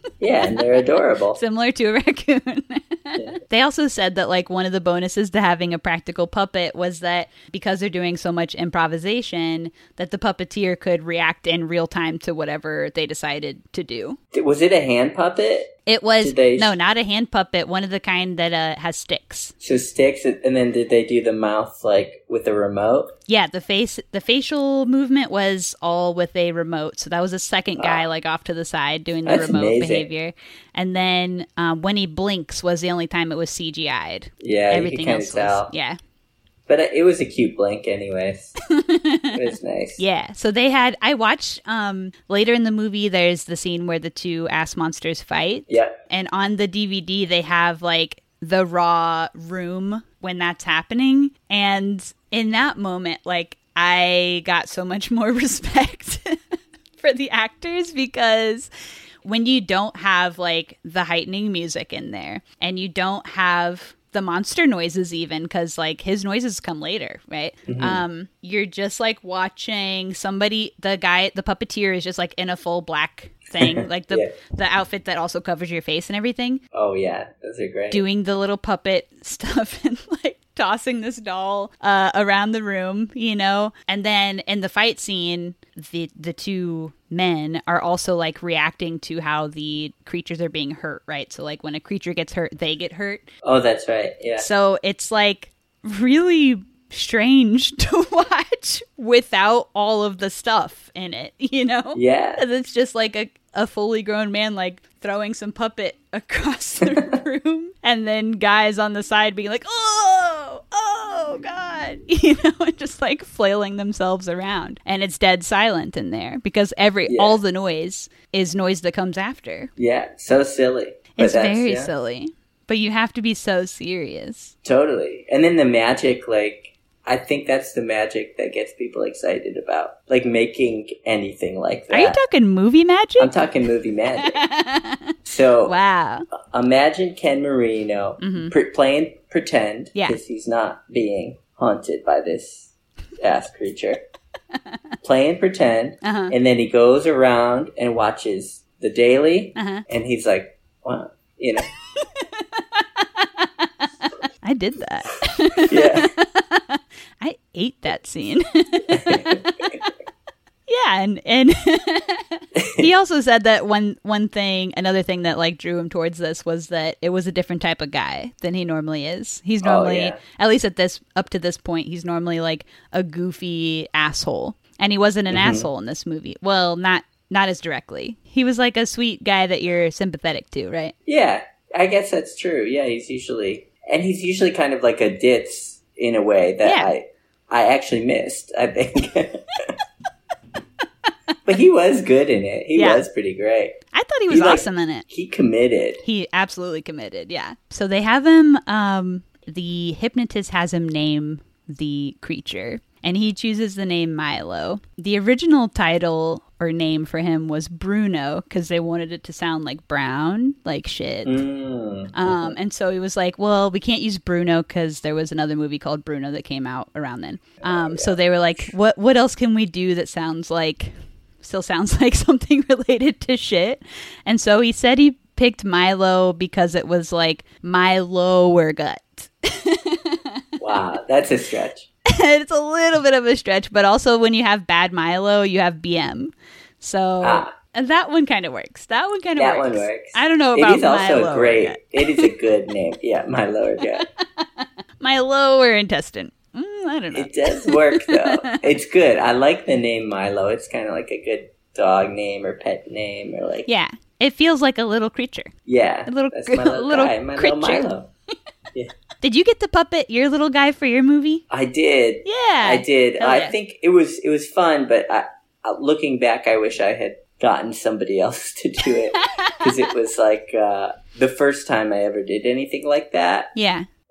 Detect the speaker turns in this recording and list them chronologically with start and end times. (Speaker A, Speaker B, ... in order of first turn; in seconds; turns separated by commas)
Speaker A: 0.2-1.4, Speaker B: 1.4-14.2, Speaker A: 14.3-16.7, Speaker B: 15.8-19.5, Speaker A: 19.6-23.1, Speaker B: 23.3-36.0, Speaker A: 27.8-28.1, Speaker A: 29.2-30.1, Speaker A: 34.4-35.7, Speaker A: 36.7-38.5, Speaker B: 38.7-56.4, Speaker A: 39.3-40.0, Speaker A: 45.7-45.9, Speaker B: 57.0-58.7, Speaker B: 59.2-76.6, Speaker A: 67.7-68.0, Speaker A: 73.6-74.3, Speaker A: 76.7-78.0, Speaker B: 77.9-93.3, Speaker A: 93.4-94.5, Speaker B: 94.4-119.7, Speaker A: 101.9-102.4, Speaker A: 117.1-117.4, Speaker A: 119.8-121.9, Speaker B: 121.2-124.5, Speaker A: 124.6-132.2, Speaker B: 131.9-133.3, Speaker A: 133.2-134.4, Speaker B: 134.2-136.2, Speaker A: 135.2-135.8, Speaker A: 136.5-144.0, Speaker B: 138.2-138.5, Speaker B: 139.9-140.2, Speaker A: 145.0-151.7, Speaker B: 146.0-146.3, Speaker B: 149.6-149.8, Speaker B: 152.0-153.9, Speaker B: 154.4-159.7, Speaker A: 155.6-156.1, Speaker A: 158.9-159.8, Speaker B: 160.7-180.9, Speaker A: 162.5-162.9, Speaker A: 169.6-170.2, Speaker A: 175.3-175.7, Speaker A: 181.1-189.8, Speaker B: 186.6-186.9, Speaker A: 191.4-193.8, Speaker B: 192.8-193.0, Speaker B: 193.9-195.0, Speaker A: 194.3-196.0, Speaker B: 196.0-211.4, Speaker A: 211.2-212.5, Speaker B: 212.1-230.4, Speaker A: 217.6-218.7, Speaker A: 230.6-231.9, Speaker B: 232.1-242.3, Speaker A: 237.2-237.5, Speaker A: 239.4-244.1, Speaker B: 244.4-248.6, Speaker A: 247.1-253.7, Speaker B: 253.7-255.5, Speaker A: 255.7-258.1, Speaker B: 256.1-257.9, Speaker B: 259.2-261.4, Speaker A: 261.5-273.5, Speaker B: 262.2-263.5, Speaker B: 269.1-269.7, Speaker B: 273.5-273.9